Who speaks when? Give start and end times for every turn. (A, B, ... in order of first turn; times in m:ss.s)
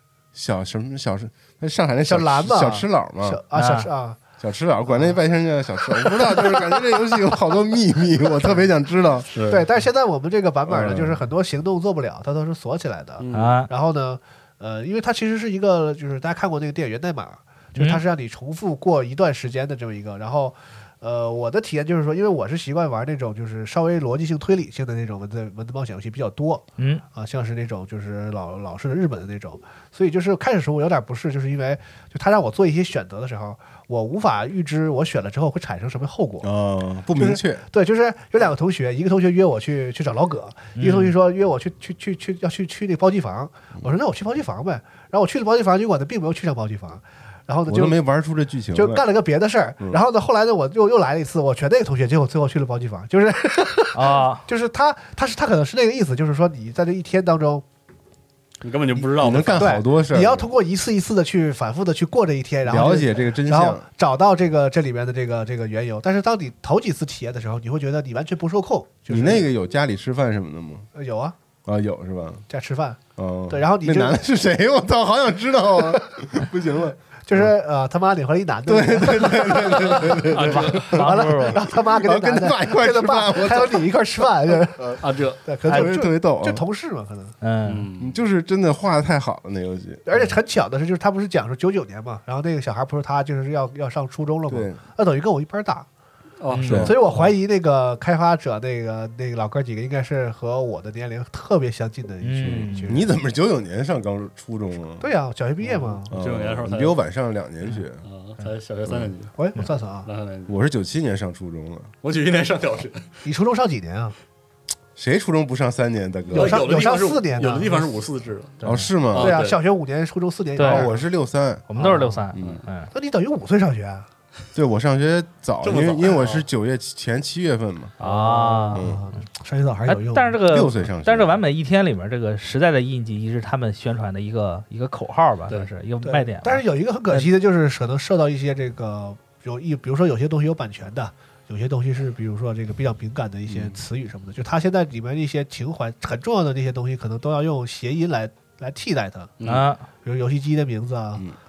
0:00.3-0:03.4 A
0:02.1-0:04.2 B
0:03.5-0:03.9 C
0:04.4-0:09.3 A
0:04.9-0:05.2 B
0:06.0-0:07.1 B
0:09.3-0:09.6 D
0:09.3-0:36.5 B
0:10.6-0:11.2 A
0:13.2-0:13.6 D
0:13.3-0:13.7 C
0:17.8-0:18.0 C
0:26.8-0:27.0 C
0:36.4-0:37.6 A
0:37.2-0:48.0 B
0:40.8-0:41.1 C
0:47.7-0:49.1 A
0:48.7-0:57.6 B
0:53.9-0:54.5 C
0:58.6-0:59.8 D
0:59.0-1:09.5 B
0:59.2-1:00.5 A
1:02.6-1:03.8 A
1:09.1-1:10.9 A
1:10.9-1:11.4 B
1:11.7-1:12.4 A
1:12.5-1:14.3 B
1:13.2-1:17.6 A
1:17.3-1:27.4 B
1:18.7-1:24.2 A
1:20.3-1:21.0 D
1:20.5-1:21.6 C
1:25.0-1:25.4 D
1:25.6-1:26.6 A
1:27.4-1:27.9 C
1:27.7-1:28.2 D
1:28.0-1:30.0 A
1:30.1-1:35.9 B
1:34.5-1:34.8 A
1:36.4-1:37.2 D
1:36.5-1:37.3 C
1:36.7-1:36.9 A
1:36.8-1:43.1 B
1:42.2-1:42.9 C
1:42.4-1:45.1 A
1:45.0-1:46.1 B
1:45.6-1:47.0 D
1:46.1-1:48.0 A
1:48.0-1:49.4 D
1:48.9-1:49.1 A
1:49.4-1:50.1 B
1:50.0-1:50.6 D
1:50.5-1:51.9 A
1:52.0-1:53.2 D
1:53.2-1:54.2 B
1:55.0-1:56.7 A
1:56.3-1:58.0 B
1:56.3-1:58.6 D
1:58.6-1:58.9 C
1:58.6-1:59.4 A
1:59.1-1:59.6 D
1:59.2-2:01.0 B
2:00.6-2:00.9 C
2:00.6-2:01.7 A
2:01.7-2:02.9 C
2:01.8-2:02.2 B
2:02.3-2:02.6 A
2:02.9-2:04.1 B
2:04.6-2:07.9 A
2:05.6-2:06.5 D
2:08.0-2:08.9 D
2:08.0-2:08.8 C
2:08.7-2:09.0 A
2:08.8-2:10.4 B
2:09.9-2:17.3 C
2:10.5-2:11.4 A
2:16.0-2:29.3 B
2:23.5-2:23.8 A
2:29.4-2:29.7 D
2:29.4-2:29.8 C
2:30.0-2:31.3 B